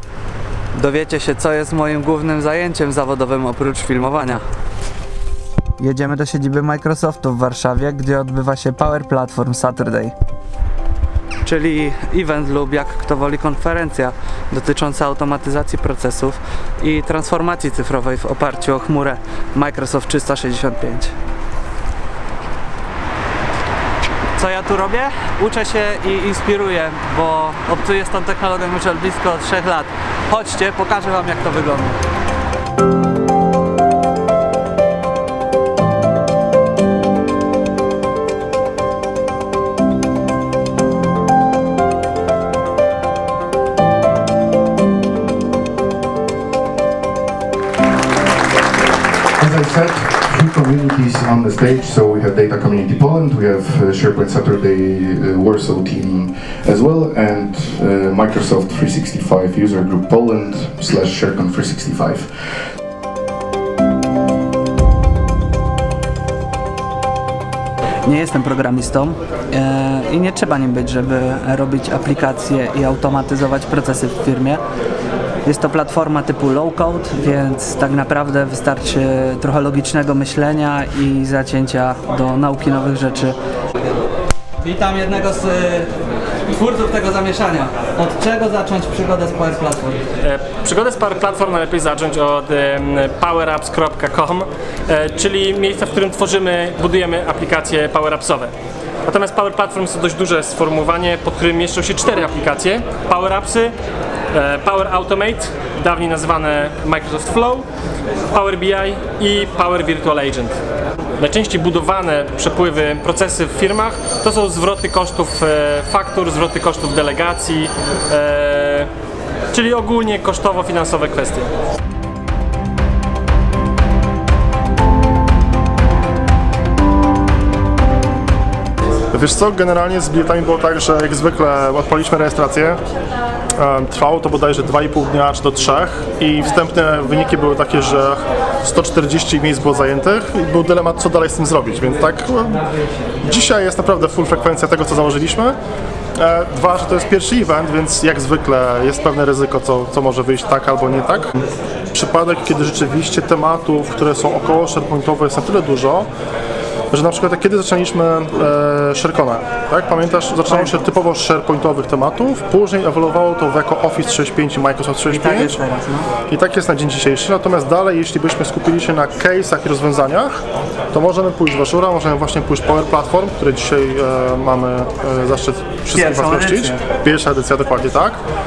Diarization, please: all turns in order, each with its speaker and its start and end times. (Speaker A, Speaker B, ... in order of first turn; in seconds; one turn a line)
Speaker A: 0.7-4.4
Speaker A: 5.8-10.1
Speaker A: 11.4-21.1
Speaker A: 24.4-32.0
Speaker B: 49.4-62.3
Speaker A: 68.0-74.6
Speaker A: 75.4-83.3
Speaker A: 84.6-85.9
Speaker A: 86.5-90.0
Speaker C: 90.2-98.5
Speaker C: 99.0-103.7
Speaker C: 104.3-107.7
Speaker C: 108.3-110.6
Speaker C: 111.2-118.9
Speaker C: 119.5-121.5
Speaker D: 129.1-132.8
Speaker D: 133.6-142.7
Speaker D: 143.2-145.6
Speaker D: 146.2-151.3
Speaker D: 151.9-156.1
Speaker D: 156.9-165.6
Speaker A: 160.5-160.8
Speaker A: 165.1-166.1
Speaker D: 166.3-178.2
Speaker A: 175.9-176.8